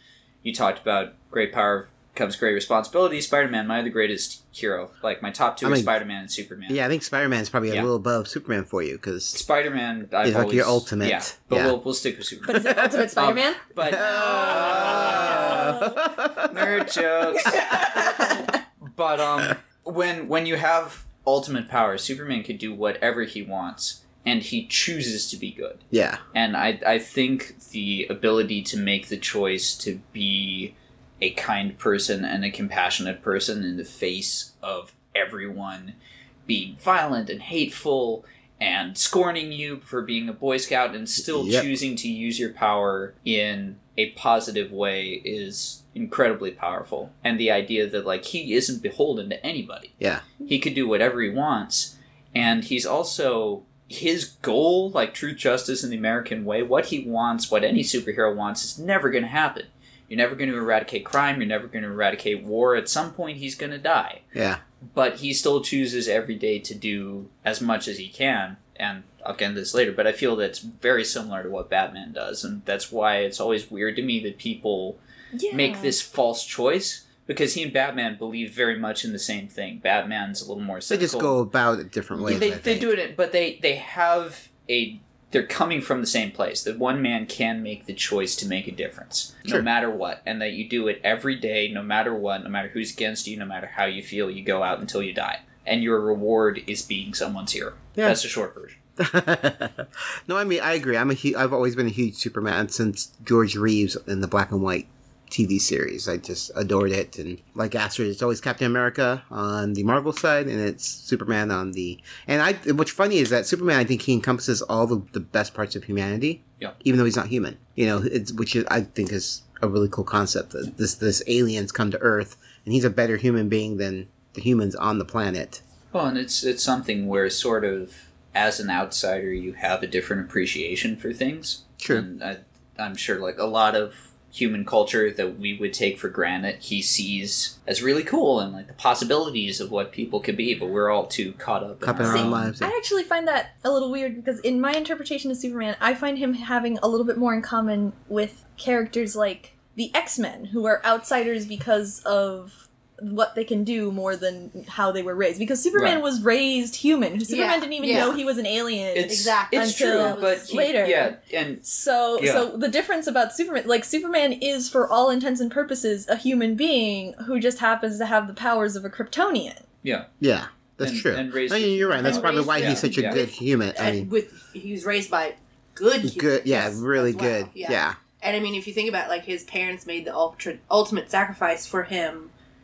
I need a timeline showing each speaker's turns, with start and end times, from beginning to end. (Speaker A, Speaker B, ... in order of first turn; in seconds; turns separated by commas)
Speaker A: 0.4-6.8, Speaker B: 5.6-5.9, Speaker B: 6.7-9.4, Speaker A: 9.3-15.8, Speaker B: 10.2-11.8, Speaker C: 12.4-16.0, Speaker B: 13.9-16.8, Speaker A: 16.4-25.8, Speaker B: 25.9-26.2, Speaker A: 26.3-36.0, Speaker A: 36.5-64.2, Speaker B: 41.2-41.7, Speaker B: 50.0-50.2, Speaker B: 64.3-64.6, Speaker A: 64.8-75.0, Speaker C: 75.3-76.0, Speaker A: 75.5-81.4, Speaker B: 80.9-82.9, Speaker A: 82.1-98.8, Speaker B: 99.0-125.6, Speaker A: 125.9-142.5, Speaker B: 131.8-132.1, Speaker B: 141.8-142.7, Speaker C: 142.0-169.6, Speaker A: 155.7-156.0, Speaker D: 157.3-158.2, Speaker A: 158.9-161.6, Speaker D: 159.1-160.6, Speaker A: 162.2-162.5, Speaker A: 169.8-170.1, Speaker B: 170.2-174.1, Speaker A: 170.8-173.2, Speaker D: 172.0-182.3, Speaker B: 176.0-178.0